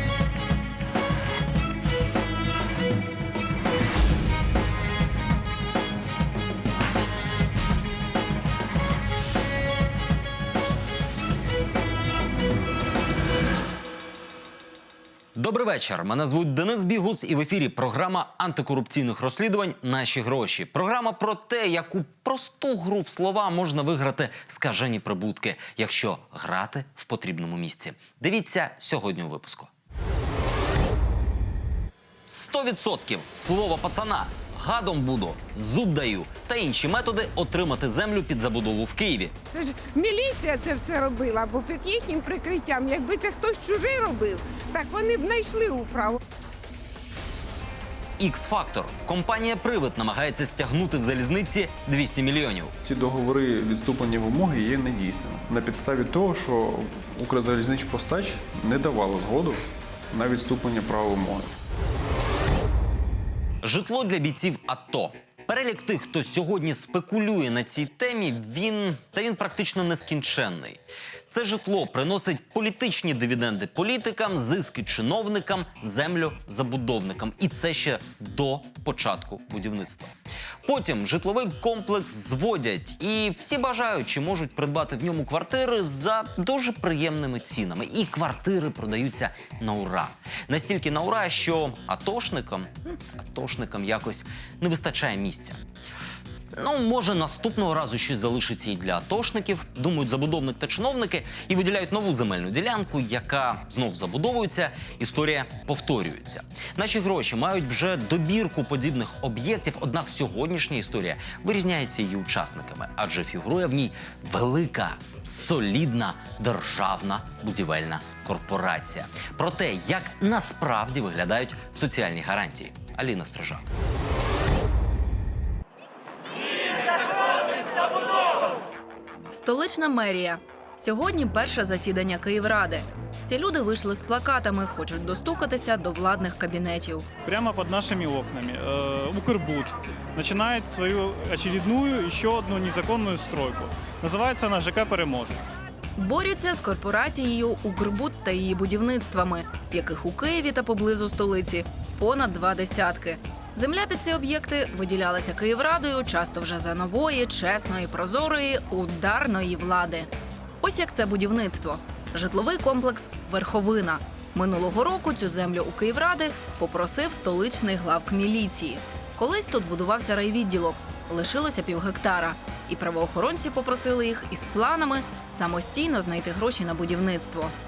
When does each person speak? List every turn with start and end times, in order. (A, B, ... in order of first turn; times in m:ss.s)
0:15.4-0:29.7 A
0:32.3-0:39.3 A
0:39.5-0:46.2 B
0:48.2-0:52.7 A
0:52.8-1:01.5 C
1:03.6-1:20.1 A
1:20.6-1:35.6 A
1:36.5-2:03.7 A
2:09.3-2:17.1 D
2:17.2-2:25.5 E
2:26.0-2:40.1 D
2:40.6-2:57.5 D